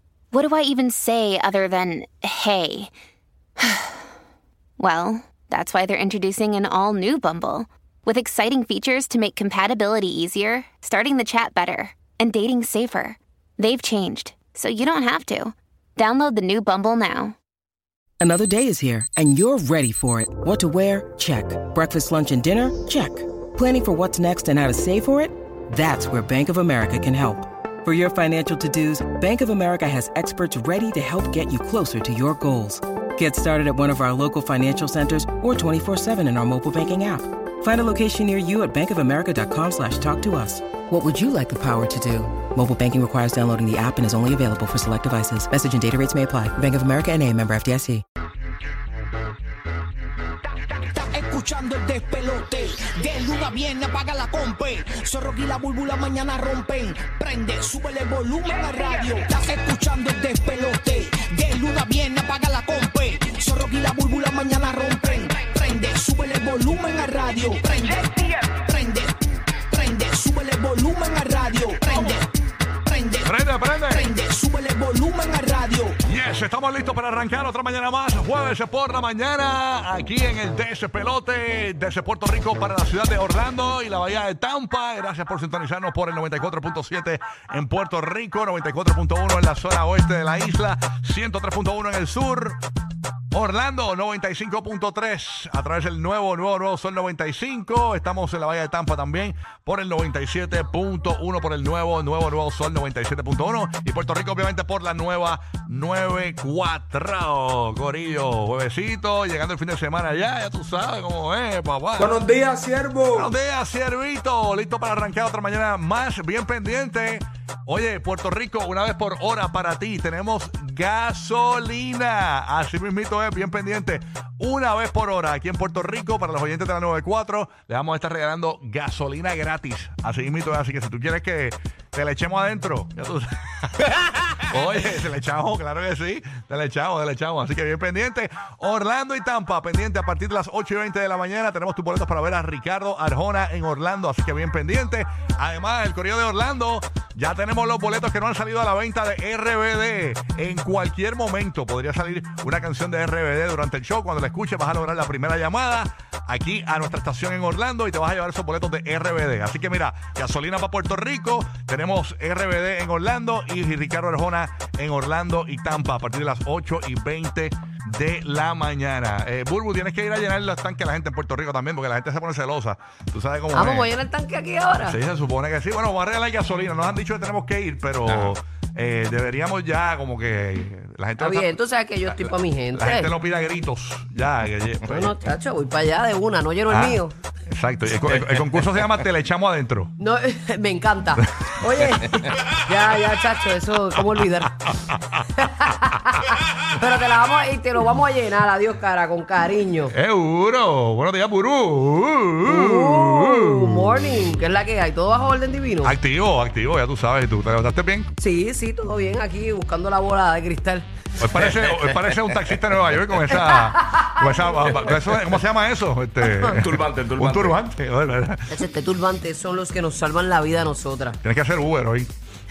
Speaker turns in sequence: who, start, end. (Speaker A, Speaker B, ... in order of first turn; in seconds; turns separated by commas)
Speaker A: 0.3-2.9, Speaker A: 3.6-4.0, Speaker A: 4.8-17.3, Speaker B: 18.2-48.0, Speaker C: 50.9-69.2, Speaker C: 69.7-72.3, Speaker C: 72.8-73.3, Speaker D: 73.2-74.1, Speaker C: 73.9-76.0, Speaker D: 76.0-92.6, Speaker D: 93.3-112.1, Speaker E: 112.0-113.3, Speaker D: 113.1-133.3, Speaker D: 134.5-173.9, Speaker F: 173.5-175.0, Speaker D: 174.9-181.6, Speaker E: 178.1-178.3, Speaker F: 181.2-183.1, Speaker D: 182.1-185.0, Speaker F: 184.9-187.1, Speaker D: 186.7-187.0, Speaker D: 187.5-189.9, Speaker F: 190.0-194.6, Speaker F: 195.4-199.9, Speaker D: 199.9-203.9, Speaker F: 202.4-206.0, Speaker D: 205.8-208.1, Speaker F: 208.2-210.9, Speaker D: 211.2-216.5, Speaker E: 211.4-212.2, Speaker F: 213.3-214.9, Speaker F: 216.2-216.5, Speaker E: 216.5-217.6, Speaker D: 217.2-218.4, Speaker F: 218.5-221.2, Speaker D: 221.2-222.1